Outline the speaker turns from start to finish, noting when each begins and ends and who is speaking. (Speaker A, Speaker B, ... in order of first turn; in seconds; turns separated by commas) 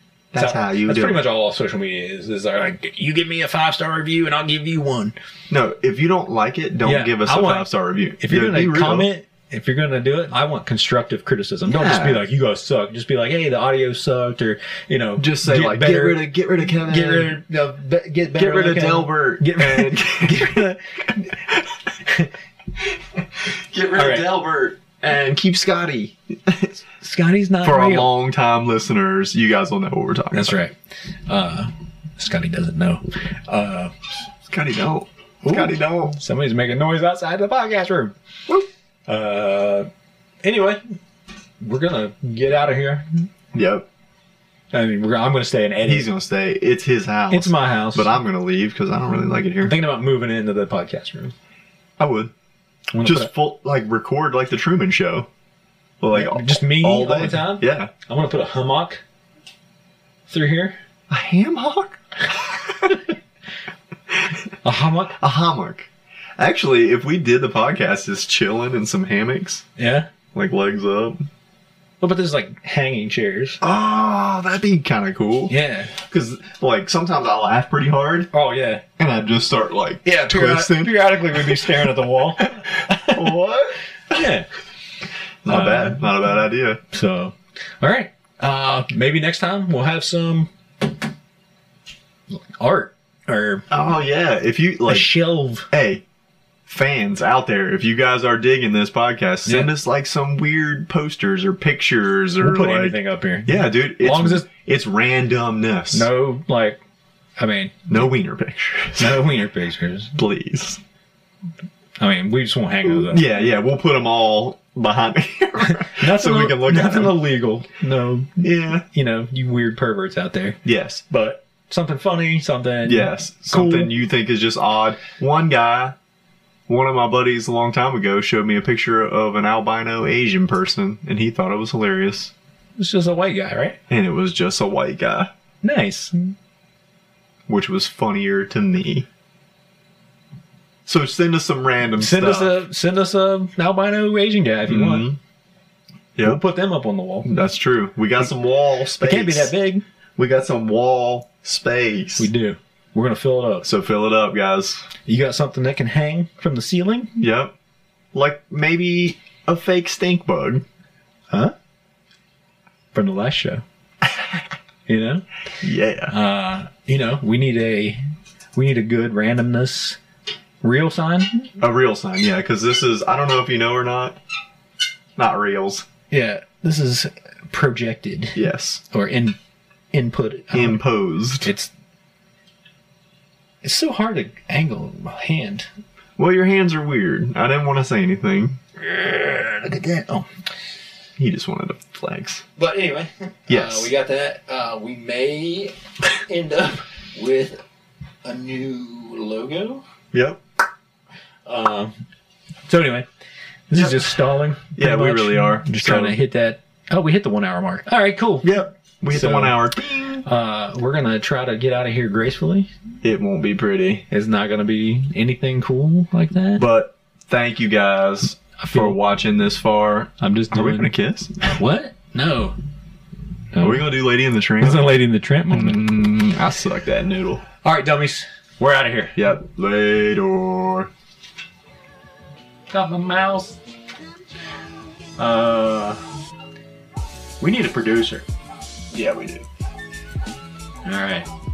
Speaker A: 0.3-1.2, Speaker B: 0.4-5.2, Speaker A: 5.5-9.1, Speaker B: 6.8-7.7, Speaker B: 8.2-21.3, Speaker A: 11.7-12.2, Speaker A: 15.2-17.4, Speaker A: 18.3-20.7, Speaker A: 21.3-21.7, Speaker B: 22.1-22.3, Speaker A: 23.4-26.8, Speaker B: 23.9-24.3, Speaker B: 27.0-28.1, Speaker A: 27.6-30.6, Speaker B: 30.3-30.8, Speaker B: 31.3-33.9, Speaker A: 34.5-36.2, Speaker B: 35.4-38.1, Speaker B: 39.1-39.9, Speaker B: 40.4-41.0, Speaker B: 41.6-43.3, Speaker A: 43.5-43.9, Speaker B: 44.7-46.1, Speaker A: 45.9-49.8, Speaker B: 47.3-48.1, Speaker B: 49.6-51.3, Speaker A: 52.0-52.3, Speaker B: 52.9-53.3, Speaker A: 53.0-55.3, Speaker A: 56.0-57.9, Speaker B: 56.1-59.0, Speaker B: 60.3-60.8, Speaker A: 61.1-63.0, Speaker B: 64.6-65.2, Speaker A: 65.2-69.7, Speaker B: 69.8-70.1, Speaker A: 70.3-71.2, Speaker B: 72.0-73.6, Speaker A: 73.6-78.3, Speaker B: 75.5-75.9, Speaker B: 78.3-78.8, Speaker A: 79.0-84.3, Speaker B: 80.0-83.3, Speaker B: 84.1-84.5, Speaker A: 85.4-86.8, Speaker B: 85.5-86.0, Speaker B: 86.9-90.5, Speaker B: 92.3-93.7, Speaker A: 93.7-96.0, Speaker B: 94.9-95.7, Speaker A: 96.7-106.1, Speaker B: 99.5-99.7, Speaker B: 102.4-104.5, Speaker B: 105.9-106.8, Speaker B: 107.4-107.8, Speaker A: 107.9-109.2, Speaker B: 109.0-110.2, Speaker A: 110.2-110.8, Speaker B: 112.0-113.3, Speaker A: 112.9-117.2, Speaker B: 115.6-120.6, Speaker A: 118.4-118.8, Speaker A: 120.7-121.1, Speaker B: 121.1-124.0, Speaker A: 122.8-126.0, Speaker A: 126.7-132.3, Speaker B: 132.8-133.8, Speaker A: 133.9-135.3, Speaker B: 135.6-136.3, Speaker A: 137.5-139.1, Speaker A: 140.9-142.6, Speaker B: 142.0-145.1, Speaker A: 144.7-145.2, Speaker B: 146.2-147.3, Speaker A: 147.2-149.5, Speaker B: 149.0-149.8, Speaker A: 150.2-152.3, Speaker B: 152.2-153.7, Speaker A: 153.6-154.9, Speaker B: 155.1-157.2, Speaker A: 157.2-157.5, Speaker A: 158.1-160.7, Speaker B: 162.9-163.6, Speaker A: 164.0-164.4, Speaker B: 164.9-165.2, Speaker A: 165.6-166.1, Speaker B: 166.1-168.0, Speaker B: 168.5-170.0, Speaker B: 170.6-171.5, Speaker A: 171.6-174.2, Speaker A: 175.2-175.9, Speaker B: 176.1-178.4, Speaker A: 178.3-178.8, Speaker B: 178.9-179.4, Speaker B: 179.9-180.8, Speaker A: 180.5-181.5, Speaker B: 181.4-181.7, Speaker B: 183.6-185.7, Speaker A: 186.2-188.6, Speaker B: 188.8-190.3, Speaker A: 191.2-192.4, Speaker B: 192.6-197.6, Speaker A: 193.5-193.9, Speaker B: 198.2-199.8, Speaker A: 200.1-200.4, Speaker B: 201.5-201.9, Speaker B: 202.7-203.1, Speaker B: 203.7-208.5, Speaker A: 203.7-204.2, Speaker A: 204.8-206.2, Speaker A: 208.4-210.2, Speaker B: 209.1-209.6, Speaker B: 210.2-212.7, Speaker A: 213.0-214.1, Speaker B: 214.1-216.7, Speaker A: 216.6-221.4, Speaker B: 218.6-219.0, Speaker B: 220.2-220.9, Speaker B: 221.4-222.6, Speaker B: 223.5-223.9, Speaker A: 223.6-224.9, Speaker B: 224.6-225.8, Speaker A: 225.5-227.4, Speaker B: 227.6-229.2, Speaker A: 229.2-230.9, Speaker B: 232.7-233.6, Speaker B: 235.2-236.0, Speaker B: 237.4-238.3, Speaker A: 238.9-239.5, Speaker B: 240.8-241.3